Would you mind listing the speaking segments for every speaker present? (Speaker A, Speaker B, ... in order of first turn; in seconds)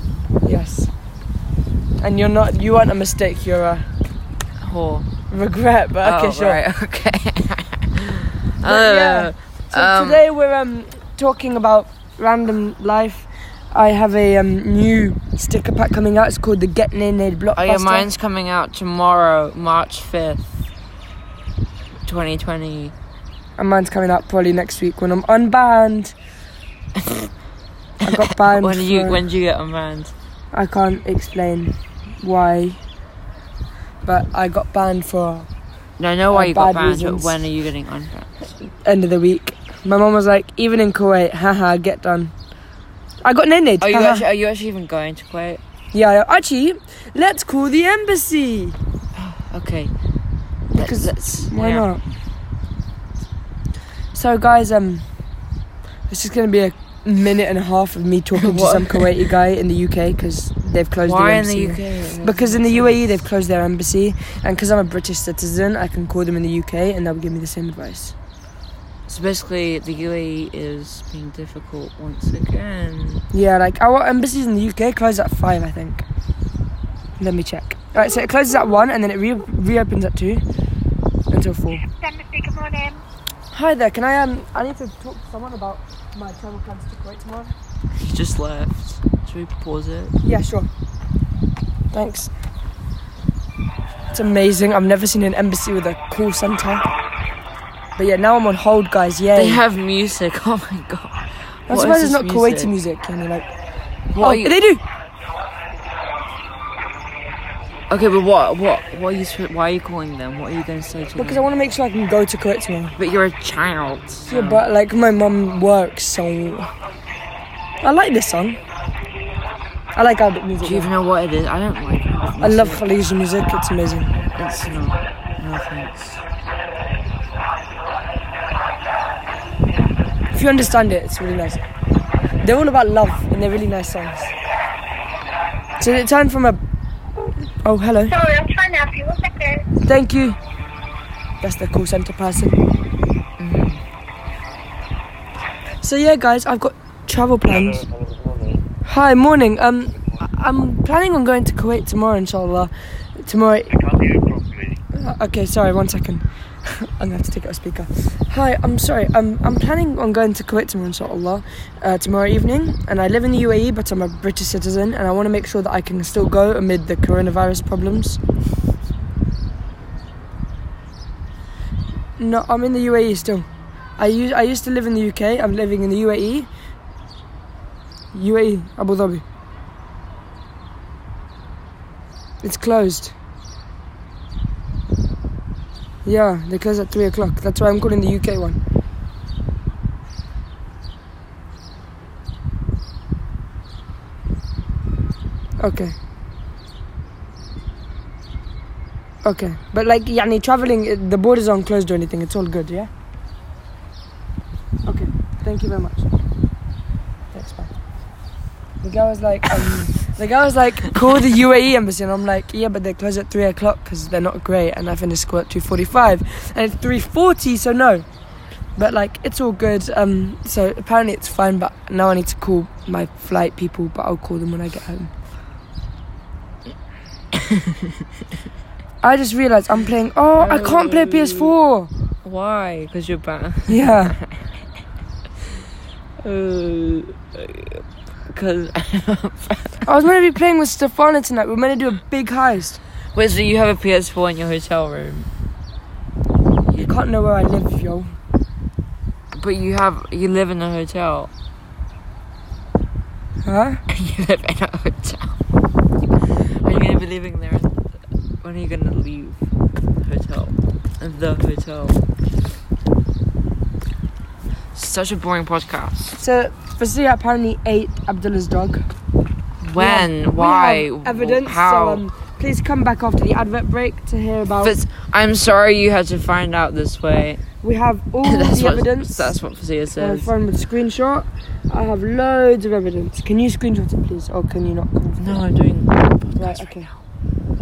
Speaker A: 0.4-0.9, 2.0-3.9, 5.3-6.6, 8.6-18.1, 23.6-26.1, 28.0-29.2, 30.5-32.8, 34.0-35.5, 36.3-37.5, 38.8-42.3, 43.2-44.2, 45.9-48.8, 50.7-52.0, 54.1-55.0, 56.1-68.1, 73.3-76.0, 77.2-80.4, 81.3-81.8, 83.5-87.5, 90.2-90.7, 91.9-92.3, 94.1-96.8, 98.0-99.6, 101.7-103.5, 104.2-104.8, 111.2-112.9, 114.3-116.7, 117.8-118.6, 119.9-120.9, 122.4-124.1, 130.3-131.6, 132.4-134.3, 135.8-136.6, 137.6-138.2, 139.8-140.4, 141.4-142.6, 145.8-147.8, 148.8-153.8, 154.9-168.2, 172.2-173.4, 174.0-176.5, 178.1-179.2, 182.4-183.1, 186.0-188.6, 195.6-195.9, 199.2-202.9, 204.8-206.1, 207.3-207.7, 208.8-218.0, 218.8-225.1, 229.0-231.9, 233.7-234.2, 239.8-242.8, 246.7-248.1, 253.4-253.8, 266.1-268.9, 269.8-274.8, 277.6-279.3, 280.0-285.4, 286.4-286.9
Speaker B: 4.6-5.1, 6.0-10.2, 17.5-20.7, 22.1-22.9, 27.0-27.3, 28.1-30.1, 36.0-38.3, 43.8-45.6, 49.1-49.9, 50.7-51.9, 58.4-59.1, 61.0-63.1, 69.1-73.2, 88.0-90.1, 99.3-102.7, 104.1-104.5, 107.9-111.4, 113.0-114.6, 120.6-122.9, 124.3-126.2, 143.4-143.8, 230.4-231.5, 232.2-234.2, 236.2-237.8, 238.3-239.8, 243.1-245.3, 249.3-251.3, 253.9-255.3, 256.6-257.7, 258.4-259.4, 260.0-262.0, 264.7-266.2, 269.6-272.0, 274.6-277.4, 278.2-280.3, 285.2-286.7
Speaker C: 82.0-83.0, 138.2-139.6